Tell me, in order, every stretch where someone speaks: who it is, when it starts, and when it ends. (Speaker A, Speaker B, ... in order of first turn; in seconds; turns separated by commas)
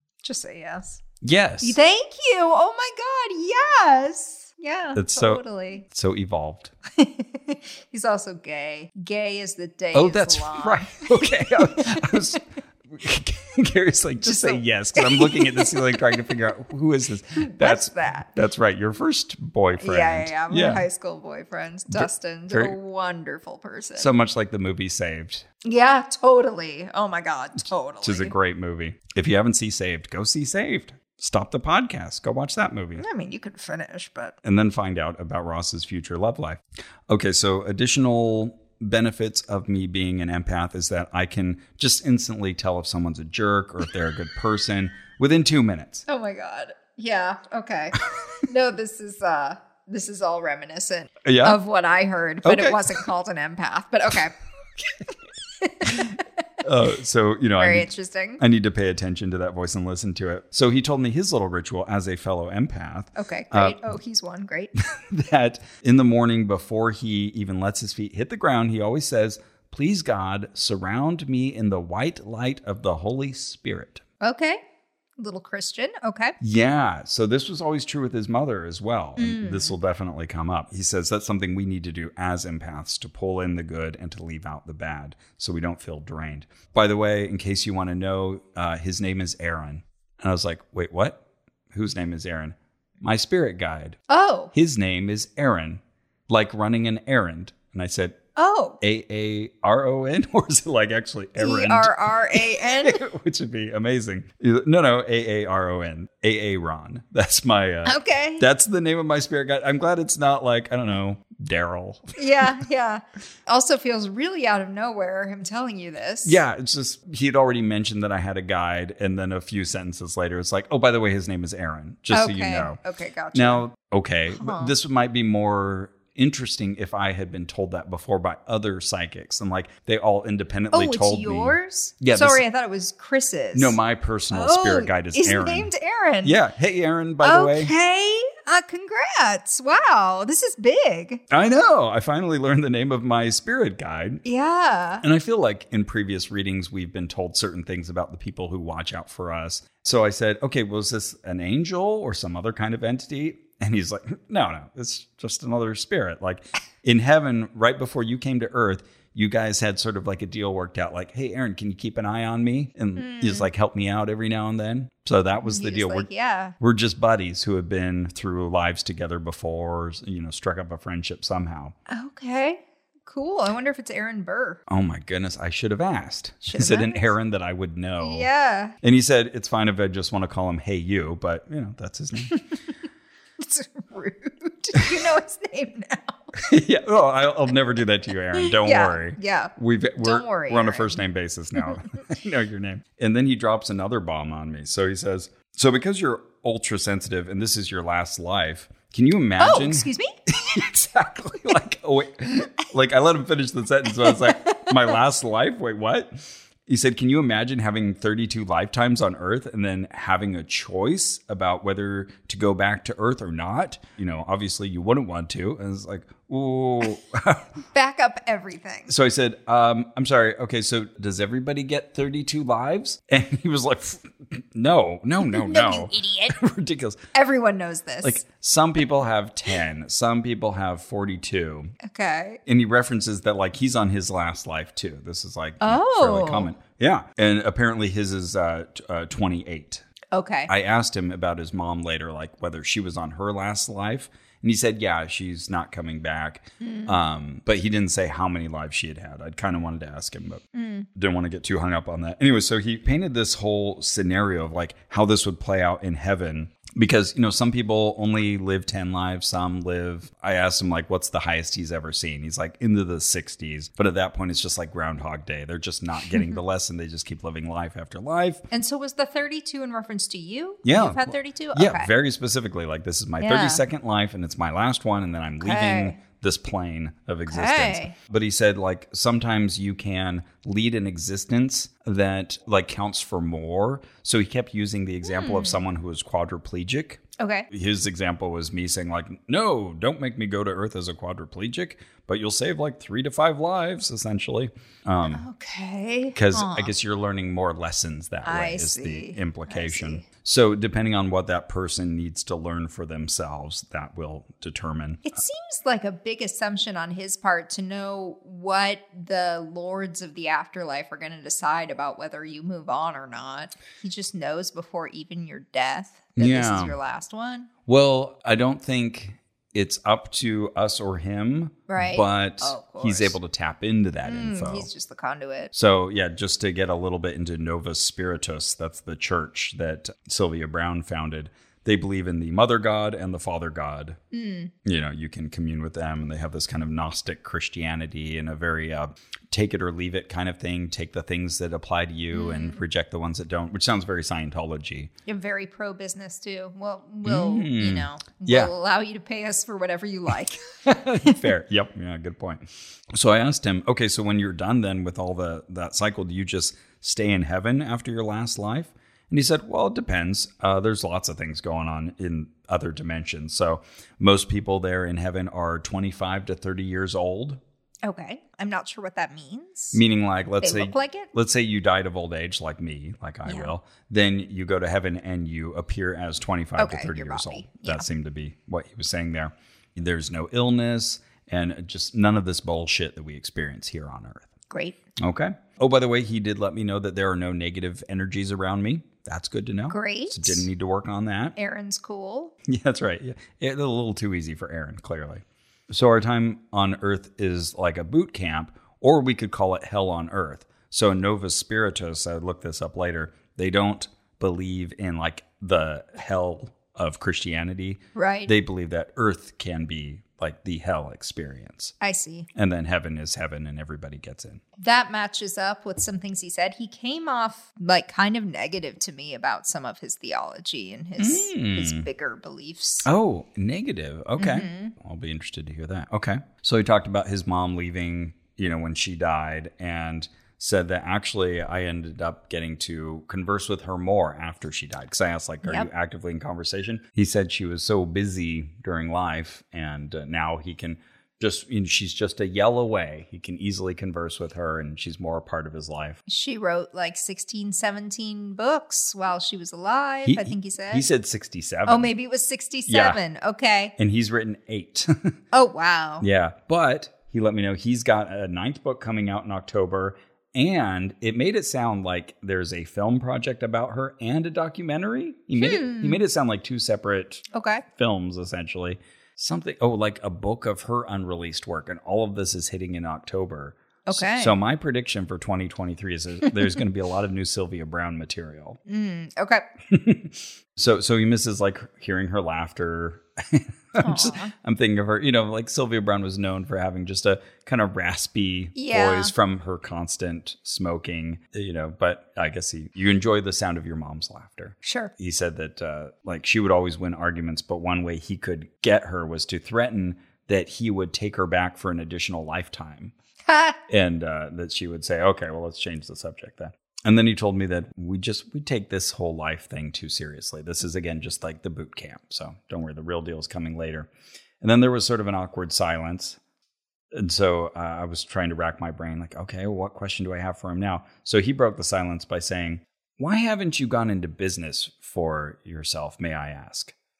Speaker A: 0.2-1.0, Speaker B: 1.2-1.8, Speaker A: 1.6-5.8, Speaker B: 5.0-6.7, Speaker A: 7.0-12.2, Speaker B: 9.9-20.9, Speaker A: 14.2-16.2, Speaker A: 17.4-18.3, Speaker A: 19.8-24.1, Speaker B: 21.9-22.8, Speaker B: 24.0-25.5, Speaker A: 25.6-28.4, Speaker B: 28.0-33.0, Speaker A: 33.0-34.4, Speaker B: 34.4-46.0, Speaker A: 46.1-54.4, Speaker B: 51.2-51.6, Speaker B: 52.4-53.0, Speaker A: 55.6-56.1, Speaker B: 56.6-63.8, Speaker A: 57.6-58.4, Speaker A: 63.2-64.8, Speaker B: 65.0-74.0, Speaker A: 74.2-74.6, Speaker A: 75.2-76.3, Speaker B: 76.4-94.0, Speaker A: 79.2-79.8, Speaker A: 94.1-94.5, Speaker B: 94.5-98.2, Speaker A: 98.4-98.8, Speaker B: 98.8-112.5, Speaker A: 101.4-103.0, Speaker A: 107.8-108.5, Speaker A: 112.2-116.4, Speaker B: 116.2-122.8, Speaker A: 122.1-123.7, Speaker B: 123.3-132.4, Speaker A: 124.3-124.7, Speaker A: 130.7-133.8, Speaker B: 133.5-135.7, Speaker A: 134.3-136.4, Speaker B: 136.2-137.7, Speaker A: 137.2-141.2, Speaker B: 141.3-144.2, Speaker A: 144.2-145.1, Speaker B: 145.0-171.8, Speaker A: 163.0-163.5, Speaker A: 165.4-166.6, Speaker A: 171.9-174.6, Speaker B: 174.7-178.3, Speaker A: 176.4-177.1, Speaker A: 178.0-178.8, Speaker B: 178.8-182.3, Speaker A: 183.4-186.3, Speaker B: 186.4-217.5, Speaker A: 188.4-190.9, Speaker A: 199.4-200.1, Speaker A: 204.0-204.7, Speaker A: 217.7-218.9, Speaker B: 218.9-227.0, Speaker A: 225.2-226.4, Speaker A: 227.1-228.2, Speaker B: 228.0-231.7, Speaker A: 231.8-232.4, Speaker B: 232.5-239.8, Speaker A: 235.6-236.5, Speaker A: 240.1-240.5, Speaker B: 240.5-250.4, Speaker A: 246.6-247.0, Speaker A: 250.5-250.9, Speaker B: 250.9-268.4, Speaker A: 268.5-271.9, Speaker B: 270.6-295.3, Speaker A: 273.2-273.6, Speaker A: 275.4-276.0, Speaker A: 277.3-277.9, Speaker A: 285.0-285.6, Speaker A: 287.2-287.5, Speaker A: 295.1-296.7, Speaker B: 296.1-305.1, Speaker A: 298.2-300.0, Speaker A: 305.1-317.5, Speaker B: 316.2-316.8, Speaker B: 317.7-324.7, Speaker A: 321.7-323.2, Speaker A: 324.1-325.5, Speaker B: 325.5-334.0, Speaker A: 334.1-334.5, Speaker B: 334.6-344.9, Speaker A: 342.1-342.6, Speaker A: 345.1-350.4, Speaker B: 347.0-348.5, Speaker B: 350.6-367.4, Speaker A: 367.8-369.8, Speaker B: 369.7-384.3, Speaker A: 370.4-371.1, Speaker A: 373.3-373.5, Speaker A: 376.6-377.9, Speaker A: 384.5-384.8, Speaker B: 385.0-391.4, Speaker A: 389.7-390.5, Speaker A: 391.4-392.3, Speaker B: 392.4-411.7, Speaker A: 407.9-408.3, Speaker A: 411.8-412.3, Speaker B: 412.4-414.4, Speaker A: 414.6-422.9, Speaker B: 421.0-421.9, Speaker B: 422.8-446.0, Speaker A: 424.2-424.7, Speaker A: 435.4-435.7, Speaker A: 446.1-450.9, Speaker B: 450.0-451.9, Speaker A: 451.7-453.7, Speaker B: 452.7-453.0, Speaker B: 453.8-455.1, Speaker A: 455.3-456.1, Speaker B: 456.0-478.6, Speaker A: 465.4-466.0, Speaker A: 467.3-467.6, Speaker A: 473.9-474.4, Speaker A: 478.7-479.4, Speaker B: 479.7-502.9, Speaker A: 483.8-484.3, Speaker A: 488.6-489.1, Speaker A: 494.6-494.9, Speaker A: 503.3-503.6, Speaker B: 503.7-513.9, Speaker B: 514.4-516.2, Speaker B: 516.9-526.7